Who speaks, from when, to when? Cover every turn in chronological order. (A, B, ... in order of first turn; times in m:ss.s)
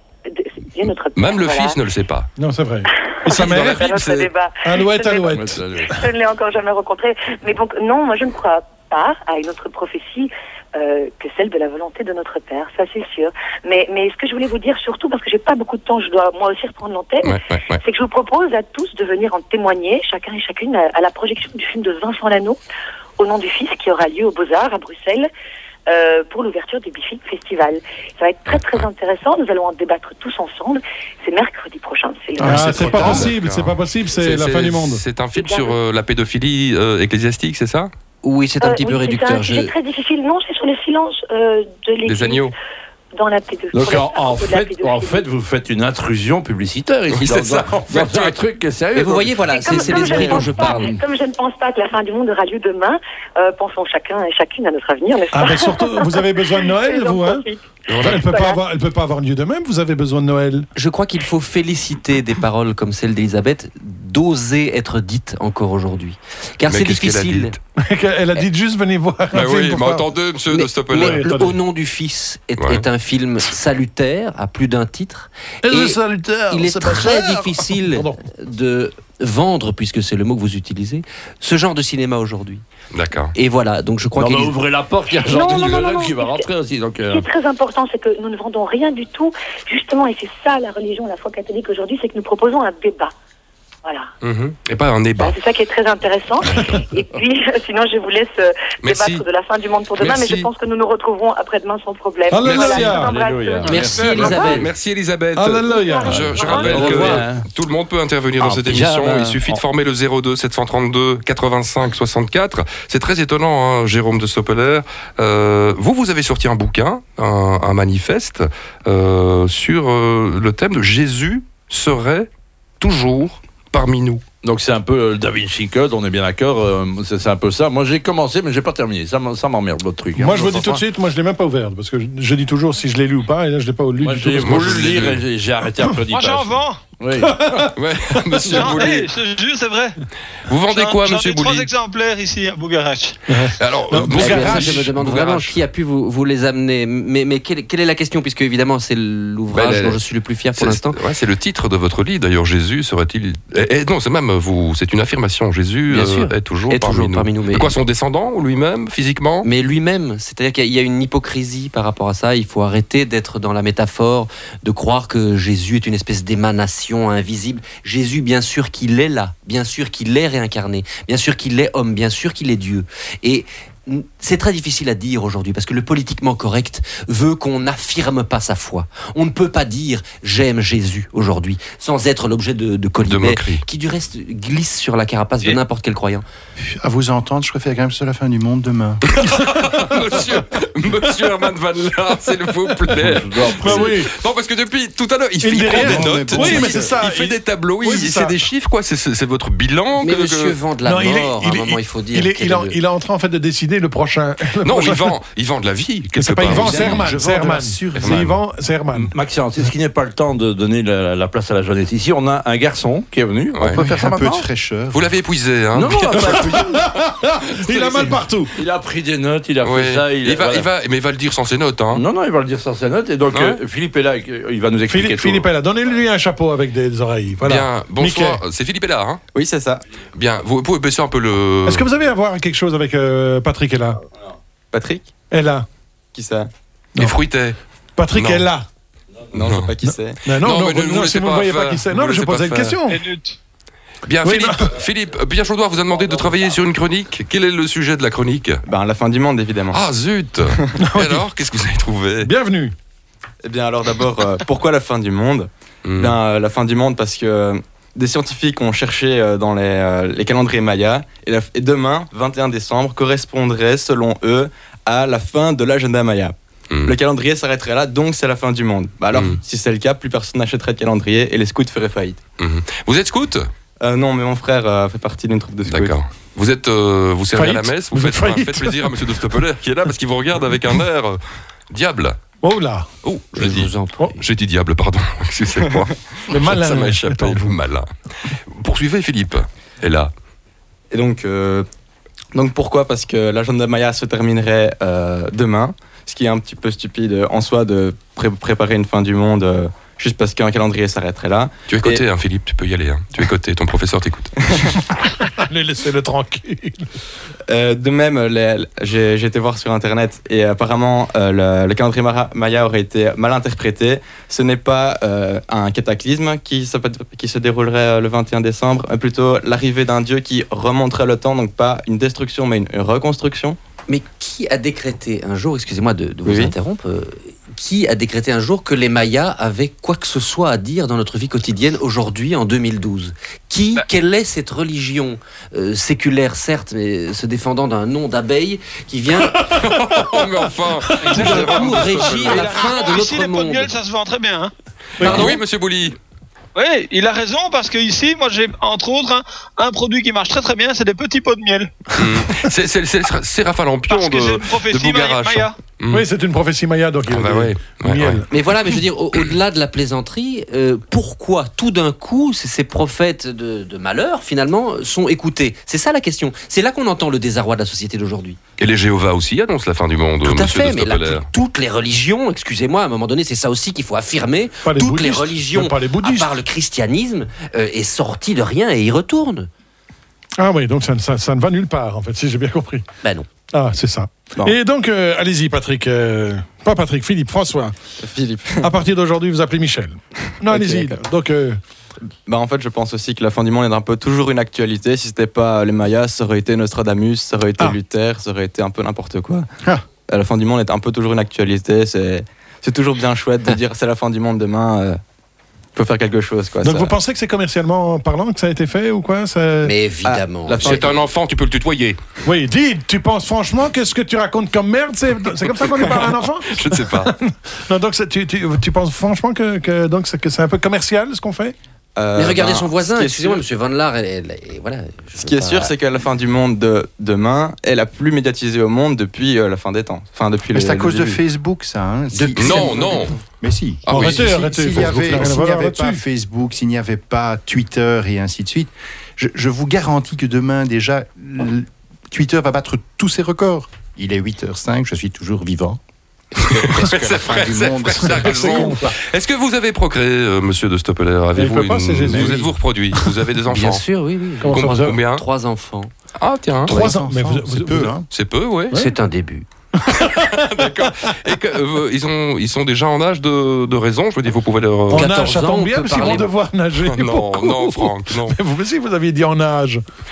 0:00.3-0:01.8 A
0:01.2-0:02.3 B
0:02.4-0:03.9 C
0:02.9-0:22.6 A
0:03.3-0:04.3 B
0:04.6-0:05.6 C
0:05.3-0:05.9 D
0:17.2-0:17.8 B
0:23.2-0:25.3 A
0:25.9-0:33.2 A
0:28.5-0:28.9 B
0:32.4-0:35.0 C
0:32.4-0:37.9 B
0:35.3-0:35.8 A
0:38.2-0:39.7 E
0:38.6-0:42.5 A
0:42.0-0:42.5 B
0:43.2-0:45.2 A
0:43.7-0:51.0 D
0:47.1-0:48.4 B
0:49.0-0:51.0 E
0:49.5-0:58.6 A
0:55.3-0:57.4 C
0:57.9-0:58.3 B
0:58.0-1:00.7 C
1:00.8-1:07.6 E
1:06.7-1:07.6 B
1:07.8-1:10.0 C
1:09.3-1:11.3 B
1:10.5-1:22.6 E
1:10.9-1:11.6 C
1:15.6-1:18.2 C
1:22.9-1:23.3 B
1:23.4-1:24.6 E
1:24.2-1:27.3 D
1:25.2-1:26.5 A
1:27.1-1:33.1 A
1:33.8-1:34.1 A
1:34.2-1:35.4 B
1:35.2-1:44.6 A
1:36.4-1:36.8 B
1:38.8-1:39.3 B
1:40.0-1:40.5 B
1:42.3-1:43.1 C
1:42.4-1:42.9 B
1:42.6-1:44.7 D
1:43.7-1:44.7 E
1:44.5-2:02.3 B
1:45.4-1:47.2 C
1:45.7-1:46.9 A
1:46.1-1:47.5 D
1:48.4-1:49.6 D
2:02.8-2:04.2 B
2:04.4-2:10.8 D
2:10.2-2:14.7 C
2:14.0-2:17.6 D
2:14.4-2:15.2 B
2:16.1-2:16.8 F
2:17.2-2:18.7 C
2:17.8-2:19.1 B
2:18.5-2:20.0 F
2:20.5-2:21.7 B
2:20.7-2:23.2 F
2:23.3-2:25.0 C
2:23.6-2:25.5 B
2:24.1-2:31.0 E
2:29.5-2:30.0 B
2:30.6-2:39.5 B
2:35.9-2:37.7 E
2:39.4-3:06.2 E
3:03.0-3:03.6 B
3:06.6-3:09.0 G
3:09.1-3:20.6 B
3:13.0-3:14.0 D
3:13.6-3:14.1 C
3:15.4-3:18.4 C
3:15.6-3:16.9 G
3:20.0-3:22.8 E
3:20.8-3:25.2 C
3:24.6-3:27.1 B
3:26.1-3:29.1 C
3:26.5-3:28.2 G
3:27.9-3:28.4 B
3:28.9-3:34.5 D
3:33.6-3:33.8 B
3:33.7-3:35.1 G
3:34.9-3:36.6 B
3:35.7-3:36.8 D
3:36.2-3:38.5 C
3:37.7-3:40.7 D
3:37.8-3:38.1 B
3:39.6-3:42.0 B
3:41.9-3:45.5 D
3:43.3-3:43.6 B
3:44.9-3:48.4 C
3:47.4-3:49.2 B
3:49.3-3:49.8 H
3:50.2-3:51.9 B
3:51.7-3:54.0 C
3:54.7-3:55.1 H
3:55.3-3:55.7 C
3:56.1-3:56.5 H
3:57.0-3:57.6 B
3:58.0-3:58.7 C
3:58.1-3:58.5 B
3:59.3-3:59.7 B
3:59.3-4:00.2 H
3:59.8-4:03.1 C
4:00.4-4:02.8 B
4:02.9-4:03.4 F
4:04.1-4:08.6 B
4:04.2-4:04.8 C
4:08.6-4:09.8 H
4:09.7-4:12.3 B
4:10.8-4:11.2 C
4:12.2-4:12.7 C
4:13.4-4:32.2 H
4:15.8-4:16.2 B
4:29.1-4:29.4 B
4:32.4-4:33.5 B
4:33.8-4:36.0 H
4:35.7-4:41.2 B
4:37.3-4:39.2 C
4:41.7-4:42.2 B
4:42.4-4:42.9 C
4:43.0-4:47.9 B
4:43.3-4:44.2 E
4:46.3-4:47.6 C
4:48.5-4:50.1 B
4:50.9-4:51.7 H
4:52.3-5:02.0 H
5:01.7-5:04.6 B
5:05.2-5:06.9 C
5:07.5-5:23.6 H
5:23.9-5:39.4 E
5:26.2-5:26.5 H
5:39.5-5:42.6 B
5:39.5-5:40.2 C
5:40.9-5:41.4 C
5:41.0-5:43.7 E
5:41.3-5:44.5 F
5:45.0-5:45.4 C
5:45.0-5:46.0 B
5:45.0-5:45.3 F
5:46.6-5:51.8 F
5:52.0-5:56.0 B
5:53.9-5:55.5 F
5:55.9-5:58.3 C
5:57.1-5:58.2 B
5:58.3-6:08.4 E
6:08.6-6:11.3 B
6:10.2-6:19.5 E
6:14.6-6:16.3 C
6:20.4-6:22.8 C
6:23.5-6:27.8 C
6:28.0-6:28.7 H
6:28.6-6:31.6 C
6:30.5-6:31.0 H
6:32.3-6:39.5 H
6:40.1-6:45.0 H
6:45.8-6:47.0 H
6:46.6-6:49.7 C
6:49.6-6:50.9 E
6:50.0-6:50.9 H
6:50.6-6:52.0 B
6:52.2-7:01.6 C
6:55.6-6:57.1 B
7:02.0-7:03.4 H
7:02.2-7:05.7 E
7:05.2-7:11.2 H
7:10.5-7:25.8 G
7:12.1-7:12.9 E
7:12.4-7:13.2 B
7:13.9-7:14.4 B
7:13.9-7:16.0 C
7:26.4-7:28.8 G
7:26.4-7:33.8 B
7:28.2-7:28.9 C
7:31.4-7:33.1 C
7:33.5-7:35.9 E
7:34.4-7:35.0 C
7:34.4-7:35.2 B
7:36.2-7:36.8 B
7:36.6-7:38.0 C
7:36.7-7:38.0 G
7:38.1-7:38.8 B
7:38.7-7:39.5 E
7:39.8-7:40.9 C
7:39.9-7:45.1 B
7:44.9-7:49.8 C
7:44.9-7:46.3 E
7:46.8-7:48.4 B